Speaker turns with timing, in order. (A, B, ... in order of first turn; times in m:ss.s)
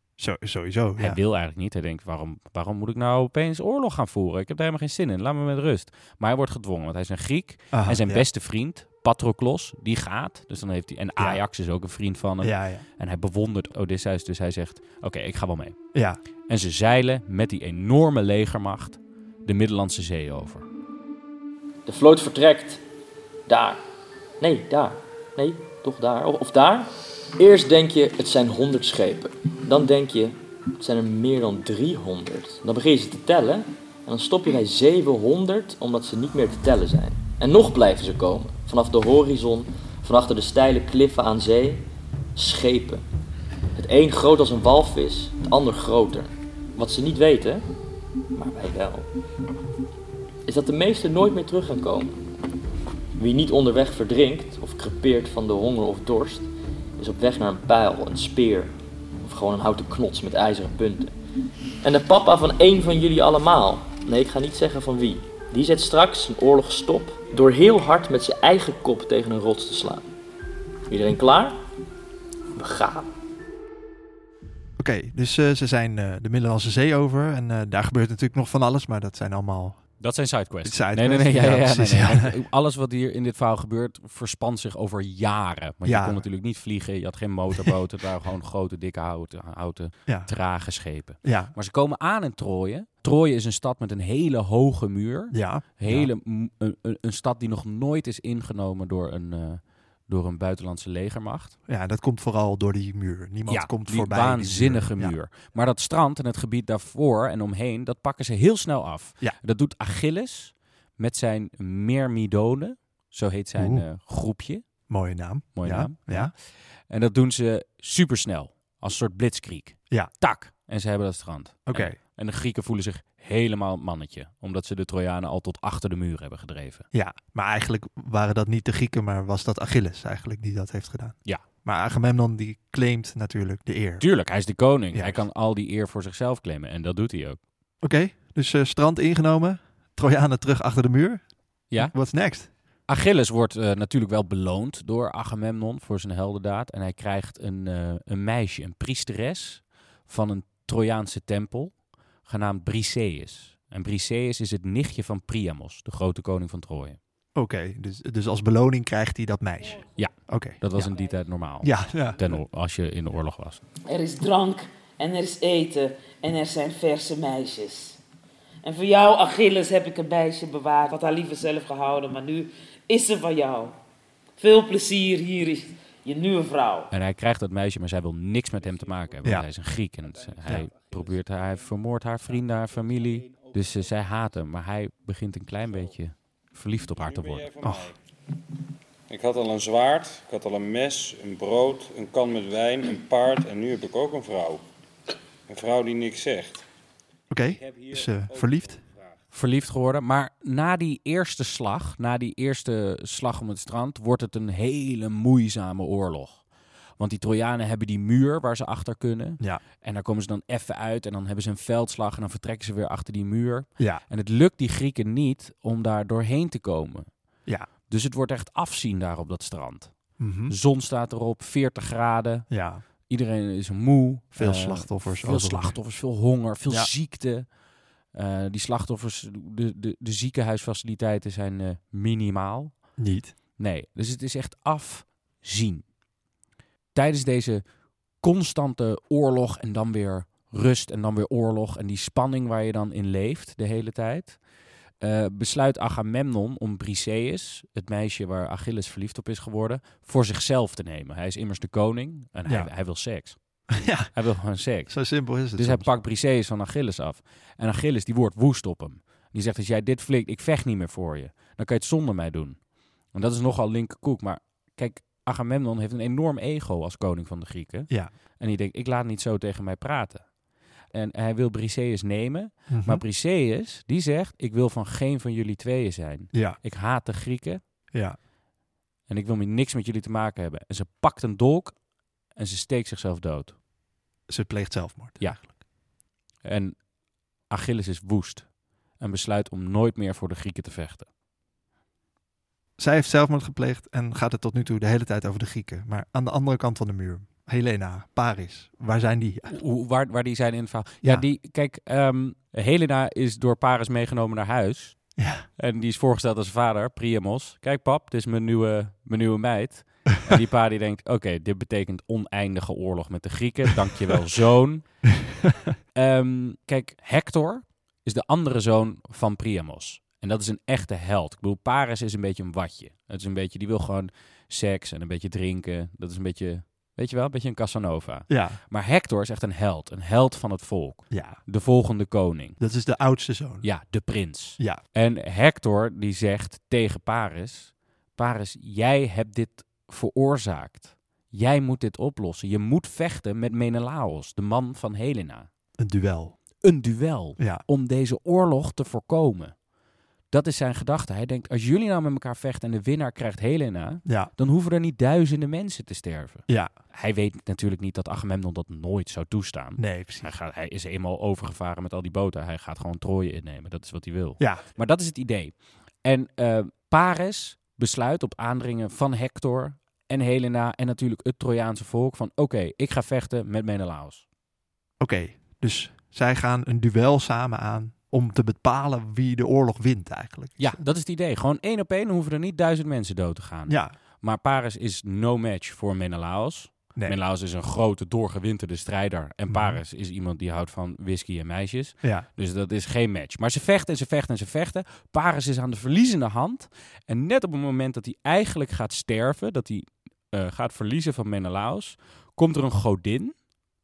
0:00.2-0:01.2 A
0:01.0-0:15.8 B
0:07.7-0:08.2 A
0:12.4-0:12.8 A
0:15.9-0:16.2 A
0:16.5-0:20.6 B
0:21.9-0:22.8 C
0:23.5-0:23.8 C
0:24.4-0:41.8 C
0:42.4-0:43.0 C
0:43.8-0:47.6 C
0:48.3-0:49.1 C
0:50.5-0:52.2 C
0:53.2-1:01.1 C
1:01.8-1:10.1 C
1:10.9-1:11.6 C
1:12.6-1:13.1 C
1:14.8-1:19.8 A
1:20.0-1:41.6 B
1:20.6-1:22.4 A
1:25.8-1:26.2 A
1:31.2-1:31.5 A
1:35.3-1:36.1 A
1:41.7-1:45.2 A
1:43.5-1:54.6 B
1:53.6-1:53.8 A
1:54.9-1:56.3 A
1:55.6-1:56.4 B
1:56.9-2:06.9 B
2:01.7-2:02.0 A
2:06.9-2:14.1 A
2:14.0-2:17.4 B
2:14.9-2:15.2 A
2:17.8-2:22.5 A
2:21.7-2:22.1 B
2:22.9-2:37.0 B
2:37.4-2:40.9 A
2:40.0-2:43.6 B
2:41.6-2:42.4 A
2:43.9-2:48.0 D
2:48.6-2:53.8 D
2:54.4-2:56.9 D
2:56.9-3:07.5 B
3:07.0-3:07.9 E
3:07.6-3:07.9 A
3:09.1-3:14.6 E
3:15.5-3:16.6 E
3:17.3-3:18.8 A
3:19.3-3:26.4 B
3:27.0-3:37.1 B
3:37.9-3:42.5 B
3:40.2-3:40.5 A
3:42.5-3:42.8 A
3:43.1-3:47.5 B
3:44.3-3:45.8 A
3:48.1-3:52.8 B
3:53.0-3:53.4 A
3:53.6-3:55.9 B
3:57.0-3:57.6 B
3:58.2-4:04.4 B
4:05.0-4:13.4 B
4:13.7-4:14.1 A
4:14.1-4:22.6 B
4:14.9-4:15.9 A
4:23.1-4:30.3 B
4:30.9-4:37.6 B
4:32.7-4:33.0 A
4:36.3-4:36.6 A
4:37.9-4:38.2 A
4:39.1-4:41.8 B
4:42.3-4:43.6 B
4:44.3-4:45.5 A
4:45.2-4:45.6 B
4:46.4-4:46.8 B
4:47.5-4:51.1 B
4:52.8-4:59.6 A
4:59.5-5:05.0 B
5:05.2-5:05.5 A
5:05.6-5:14.8 B
5:15.9-5:32.6 B
5:28.3-5:28.6 A
5:31.1-5:31.4 A
5:32.6-5:33.7 A
5:33.6-5:45.5 B
5:45.8-5:46.4 A
5:46.6-5:49.6 B
5:47.4-5:47.6 A
5:50.3-6:14.2 B
5:54.1-5:54.3 A
5:59.8-6:00.3 A
6:15.0-6:20.8 A
6:20.6-6:43.4 B
6:23.7-6:24.0 A
6:29.5-6:29.8 A
6:32.0-6:32.3 A